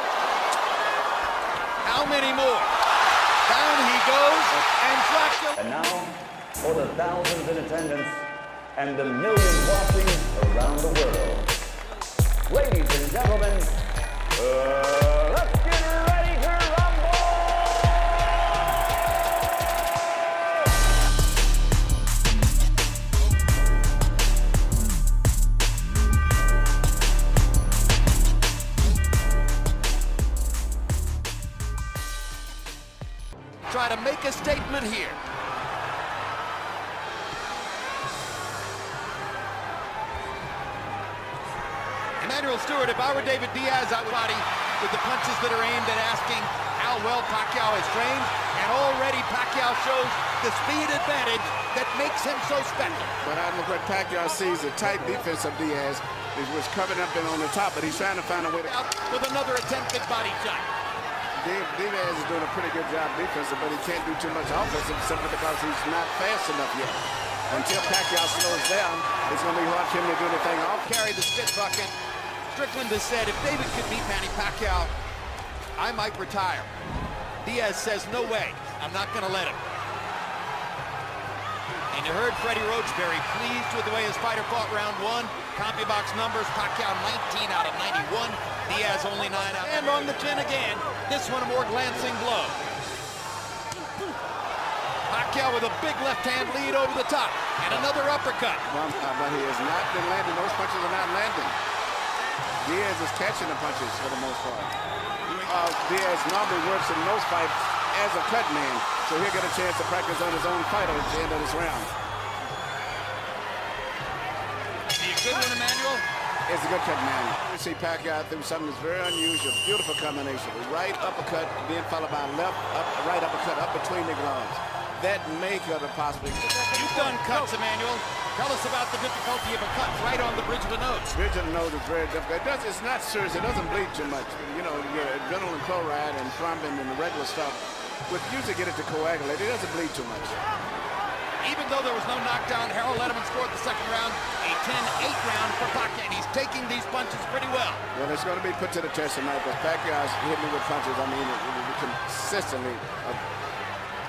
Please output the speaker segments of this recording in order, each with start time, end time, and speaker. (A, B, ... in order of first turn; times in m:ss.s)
0:01.8-0:02.7 A
0:03.4-0:05.6 A
0:05.6-0:11.5 B
0:12.5-0:13.7 B
0:14.3-0:18.2 B
0:33.7-0:35.2 A
0:42.2-0:53.1 A
0:53.2-0:58.7 C
0:58.6-1:00.7 A
1:01.4-1:10.9 C
1:10.8-1:11.9 A
1:12.5-1:14.9 A
1:15.8-1:16.7 A
1:17.4-1:19.6 A
1:21.9-1:32.6 A
1:35.1-1:38.6 A
1:38.7-1:41.6 C
1:42.6-1:44.7 C
1:45.4-1:51.9 C
1:54.9-1:56.0 A
1:56.5-2:06.7 C
2:06.7-2:11.2 A
2:11.1-2:20.4 C
2:21.4-2:27.8 A
2:27.9-2:33.2 C